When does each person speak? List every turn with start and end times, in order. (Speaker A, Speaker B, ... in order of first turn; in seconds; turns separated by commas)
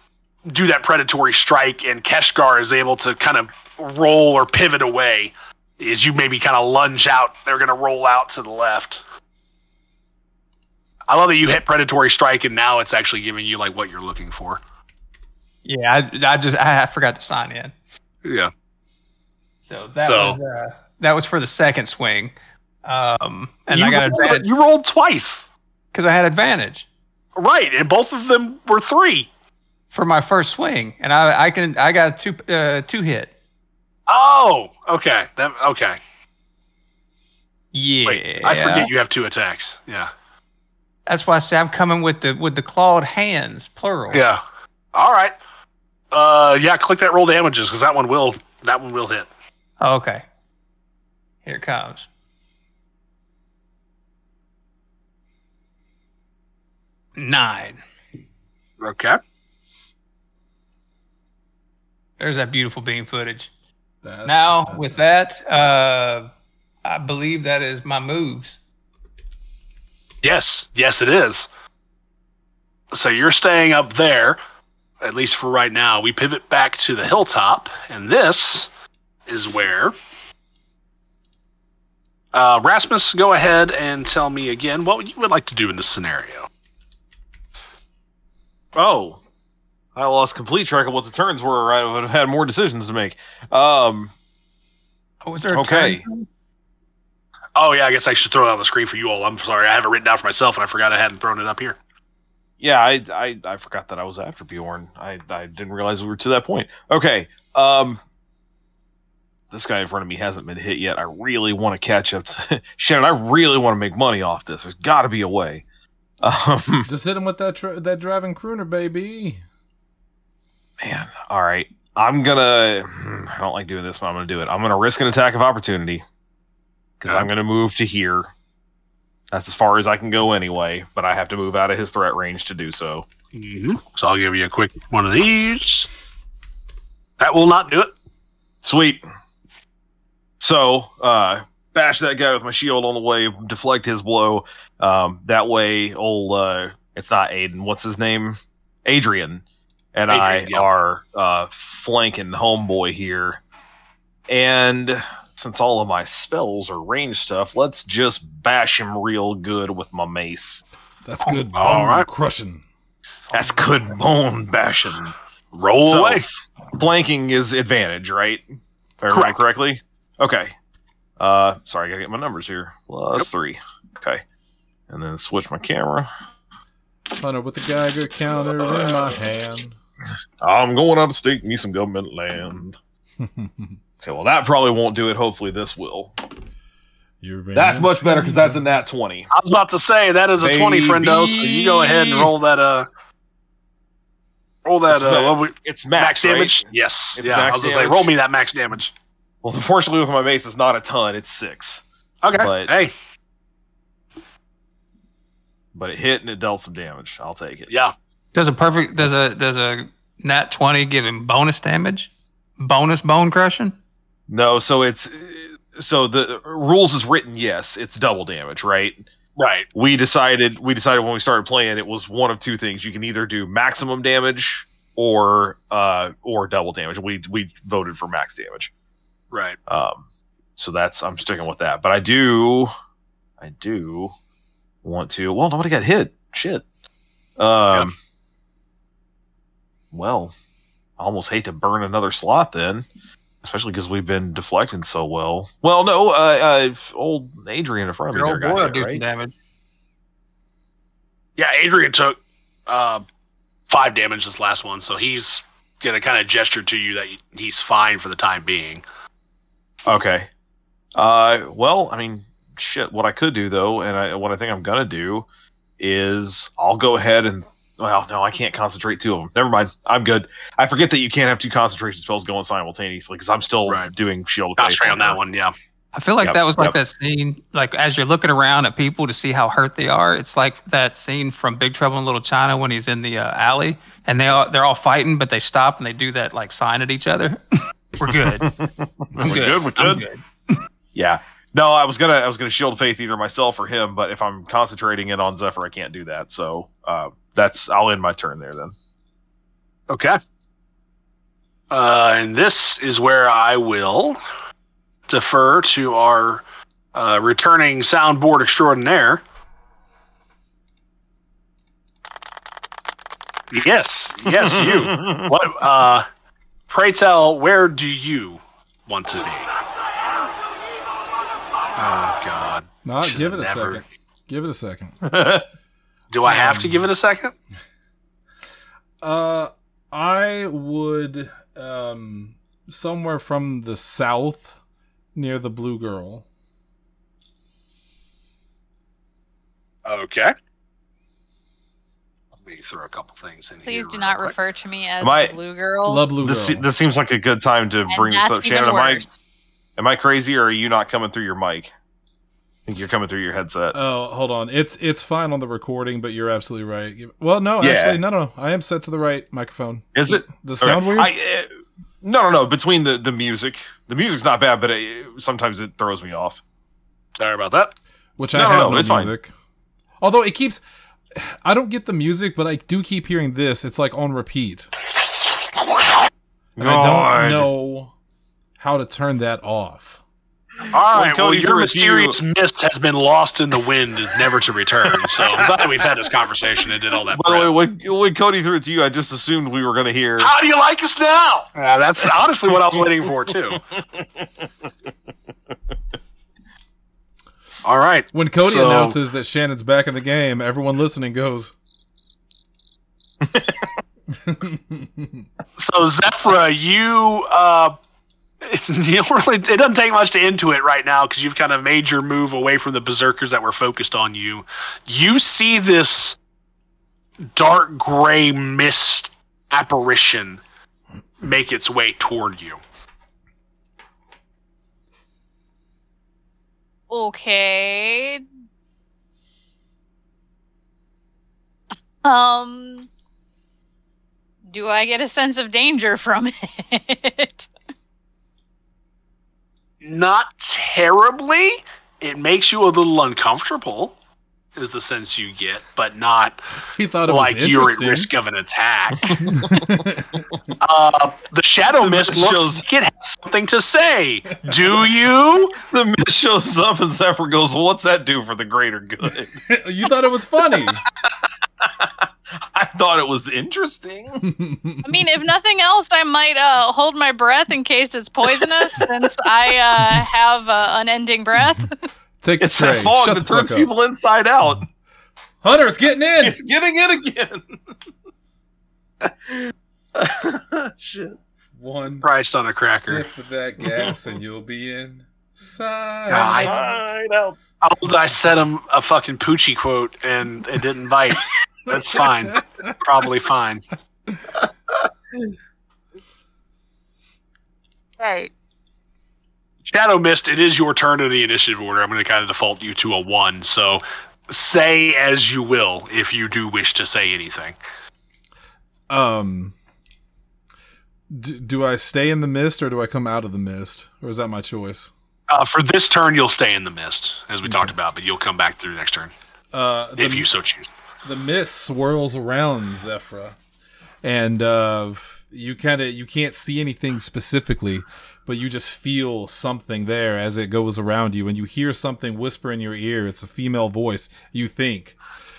Speaker A: 0.5-9.0, Speaker A: 11.1-14.6, Speaker B: 15.7-17.7, Speaker A: 18.2-18.5, Speaker B: 19.7-24.5, Speaker A: 20.0-20.4, Speaker A: 23.7-25.5, Speaker B: 25.9-26.9, Speaker A: 27.4-29.3, Speaker B: 29.9-33.3, Speaker A: 34.1-36.0, Speaker B: 37.7-38.9, Speaker A: 38.1-40.1, Speaker C: 38.4-38.9, Speaker B: 41.1-44.2, Speaker A: 44.1-44.4, Speaker A: 44.9-45.3, Speaker A: 46.1-49.3, Speaker B: 49.8-50.2, Speaker B: 51.5-52.1, Speaker B: 57.2-57.8, Speaker A: 58.8-59.2, Speaker B: 62.2-63.5, Speaker D: 64.0-65.0, Speaker B: 64.2-66.3, Speaker B: 66.8-68.6, Speaker A: 70.2-71.5, Speaker A: 72.9-74.4, Speaker A: 75.0-78.7, Speaker A: 79.3-79.9, Speaker A: 82.3-86.5, Speaker C: 88.7-89.2, Speaker C: 90.0-94.1, Speaker B: 95.2-96.3, Speaker C: 95.5-96.0, Speaker A: 97.6-101.8, Speaker C: 102.6-108.0, Speaker C: 109.5-115.6, Speaker C: 116.2-116.9, Speaker D: 116.8-119.4, Speaker C: 120.8-126.0, Speaker C: 127.0-128.3, Speaker C: 129.3-133.1, Speaker A: 133.3-135.9, Speaker A: 137.2-137.9, Speaker C: 138.6-139.0, Speaker C: 140.4-153.4, Speaker A: 150.1-150.7, Speaker C: 154.3-160.6, Speaker D: 161.1-162.6, Speaker A: 161.3-162.1, Speaker C: 163.3-165.2, Speaker A: 165.5-166.4, Speaker C: 165.8-168.5, Speaker C: 169.0-170.6, Speaker A: 169.1-169.4, Speaker C: 171.2-174.2, Speaker C: 174.9-176.1, Speaker D: 177.1-179.8, Speaker C: 180.4-182.8, Speaker D: 183.2-183.8, Speaker C: 184.0-186.1, Speaker D: 187.2-188.6, Speaker C: 187.6-189.3, Speaker A: 189.3-192.9, Speaker C: 190.4-192.3, Speaker A: 194.7-198.9, Speaker C: 194.9-198.1, Speaker C: 199.4-202.7, Speaker A: 202.2-202.9, Speaker C: 205.7-207.7, Speaker B: 208.3-213.8, Speaker C: 214.3-219.1, Speaker A: 219.4-219.7, Speaker C: 219.7-228.7, Speaker A: 229.3-229.6, Speaker C: 229.7-230.0, Speaker C: 230.6-232.7, Speaker C: 233.4-234.1, Speaker C: 234.8-236.7, Speaker C: 237.4-238.0, Speaker C: 239.9-240.3, Speaker C: 241.0-242.9, Speaker C: 243.4-249.0, Speaker B: 248.1-249.3, Speaker A: 251.4-253.0, Speaker A: 253.7-258.8, Speaker C: 259.9-260.3, Speaker C: 261.0-265.3, Speaker C: 265.8-275.2, Speaker A: 273.7-273.9, Speaker A: 274.6-275.5, Speaker B: 275.9-288.6, Speaker C: 276.2-276.8, Speaker C: 288.3-290.1, Speaker D: 289.1-289.7, Speaker B: 289.2-290.6, Speaker A: 289.4-289.7, Speaker C: 290.9-298.7, Speaker A: 299.9-300.2, Speaker A: 301.7-304.2, Speaker A: 305.1-306.4, Speaker A: 306.9-309.2, Speaker A: 313.5-316.1, Speaker C: 314.3-315.3, Speaker A: 316.7-319.5, Speaker A: 321.8-323.8, Speaker D: 322.9-325.0, Speaker C: 325.0-325.5, Speaker A: 326.1-327.3, Speaker D: 326.3-326.8, Speaker D: 329.0-334.6, Speaker D: 335.1-336.2, Speaker A: 339.9-340.3, Speaker A: 342.4-344.3, Speaker E: 343.6-346.1, Speaker C: 345.0-345.3, Speaker D: 345.9-346.6, Speaker C: 346.2-349.1, Speaker E: 347.9-349.2, Speaker C: 349.8-351.7, Speaker C: 352.7-353.8, Speaker D: 353.7-361.1, Speaker C: 357.6-358.0, Speaker C: 359.9-361.5, Speaker C: 362.0-366.4, Speaker A: 367.2-367.7, Speaker D: 368.2-369.3, Speaker C: 368.4-369.1, Speaker D: 370.0-370.6, Speaker D: 371.1-374.7, Speaker C: 376.6-377.5, Speaker D: 376.6-377.9, Speaker D: 378.6-380.0, Speaker A: 380.7-387.5, Speaker C: 380.9-382.2, Speaker C: 384.9-385.7, Speaker C: 387.1-390.3, Speaker A: 390.2-393.6, Speaker C: 393.8-394.3, Speaker A: 397.6-399.0, Speaker D: 398.1-401.5, Speaker C: 403.2-403.7, Speaker D: 404.2-405.3, Speaker A: 405.6-407.7, Speaker A: 408.4-416.2, Speaker A: 417.4-420.4, Speaker A: 421.2-422.6, Speaker E: 426.9-428.2, Speaker E: 432.0-432.9, Speaker E: 434.5-437.5, Speaker A: 439.8-443.9, Speaker A: 444.6-446.4, Speaker D: 446.8-448.1, Speaker A: 447.1-449.4, Speaker C: 449.0-449.6, Speaker D: 449.3-450.3, Speaker A: 450.6-455.6, Speaker C: 451.8-452.6, Speaker C: 455.6-459.4, Speaker D: 459.4-460.8, Speaker C: 461.6-464.3, Speaker D: 464.2-464.8, Speaker E: 464.8-471.8, Speaker D: 472.2-473.7, Speaker C: 472.4-474.7, Speaker D: 475.4-476.4, Speaker C: 476.2-477.6, Speaker C: 479.0-479.4, Speaker C: 479.9-481.2, Speaker D: 481.6-482.1, Speaker A: 482.0-483.1, Speaker D: 482.7-486.8, Speaker C: 483.7-483.9, Speaker A: 486.1-486.6, Speaker C: 486.4-487.4, Speaker A: 487.6-493.6, Speaker A: 499.7-507.6, Speaker D: 508.9-509.5, Speaker D: 511.1-514.9, Speaker A: 515.3-519.1, Speaker D: 517.5-517.7, Speaker D: 519.5-520.3, Speaker A: 520.0-520.7, Speaker D: 521.0-523.4, Speaker D: 524.0-535.0